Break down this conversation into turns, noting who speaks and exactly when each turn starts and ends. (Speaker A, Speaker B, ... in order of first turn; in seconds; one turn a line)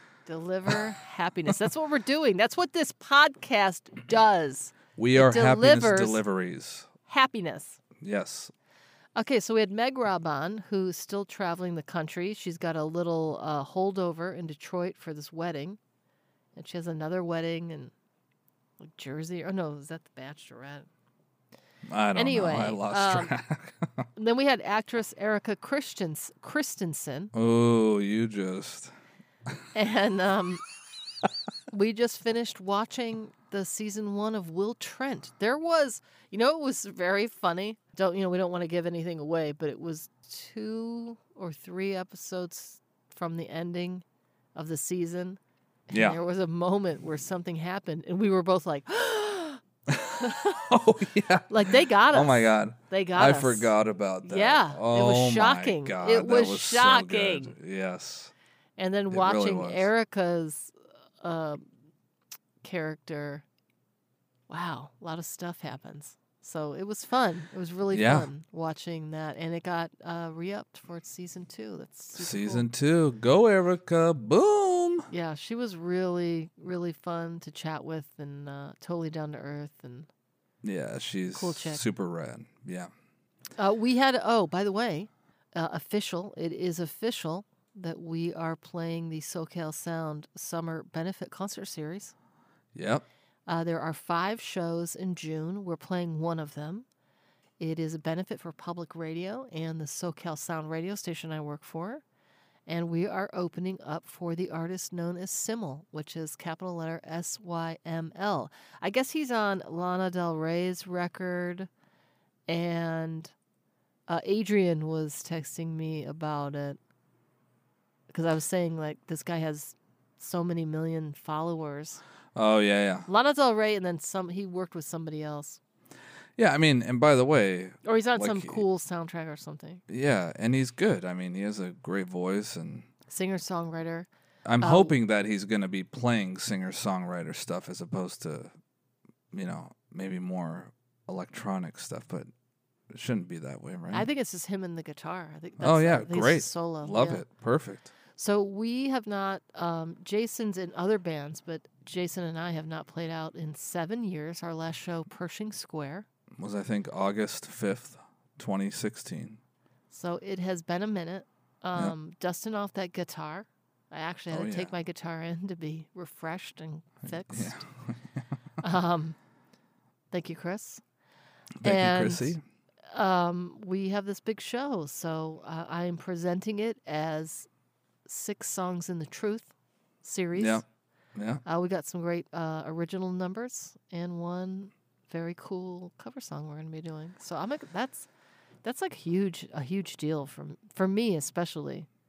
Speaker A: 0.3-6.2
Speaker B: 5.0-6.9
Speaker A: 7.1-7.8
Speaker B: 8.0-8.5
Speaker A: 9.2-15.8
Speaker A: 16.5-17.9
Speaker A: 18.8-20.9
Speaker B: 21.9-24.1
Speaker A: 22.1-23.3
Speaker A: 24.2-27.3
Speaker B: 27.3-28.9
Speaker A: 29.7-30.6
Speaker A: 31.7-44.0
Speaker A: 44.5-49.6
Speaker B: 45.9-46.2
Speaker B: 49.9-58.3
Speaker A: 51.5-57.6
Speaker A: 58.8-61.7
Speaker B: 59.1-59.9
Speaker A: 62.6-63.5
Speaker A: 64.5-72.7
Speaker B: 67.9-68.3
Speaker B: 72.1-75.1
Speaker A: 75.1-80.1
Speaker B: 80.6-82.9
Speaker A: 81.3-81.8
Speaker A: 83.6-92.1
Speaker B: 92.7-93.0
Speaker A: 93.5-96.9
Speaker A: 97.6-102.0
Speaker A: 102.7-111.7
Speaker A: 112.5-113.3
Speaker A: 114.1-116.8
Speaker A: 118.1-122.0
Speaker B: 122.3-123.1
Speaker A: 123.1-125.6
Speaker B: 126.4-128.6
Speaker A: 127.8-129.8
Speaker B: 129.9-132.9
Speaker A: 133.1-134.1
Speaker B: 134.5-138.5
Speaker A: 134.6-134.9
Speaker B: 139.3-142.3
Speaker B: 142.9-144.1
Speaker A: 143.9-147.2
Speaker B: 145.6-147.9
Speaker A: 148.2-156.1
Speaker B: 156.4-159.4
Speaker A: 159.9-167.6
Speaker B: 164.3-164.7
Speaker B: 167.1-168.2
Speaker A: 168.6-169.2
Speaker A: 170.1-170.8
Speaker B: 171.6-172.4
Speaker A: 171.6-172.4
Speaker A: 172.9-177.5
Speaker A: 178.1-179.5
Speaker A: 180.0-180.6
Speaker B: 180.3-180.6
Speaker B: 181.2-181.4
Speaker A: 181.4-188.1
Speaker A: 188.6-191.9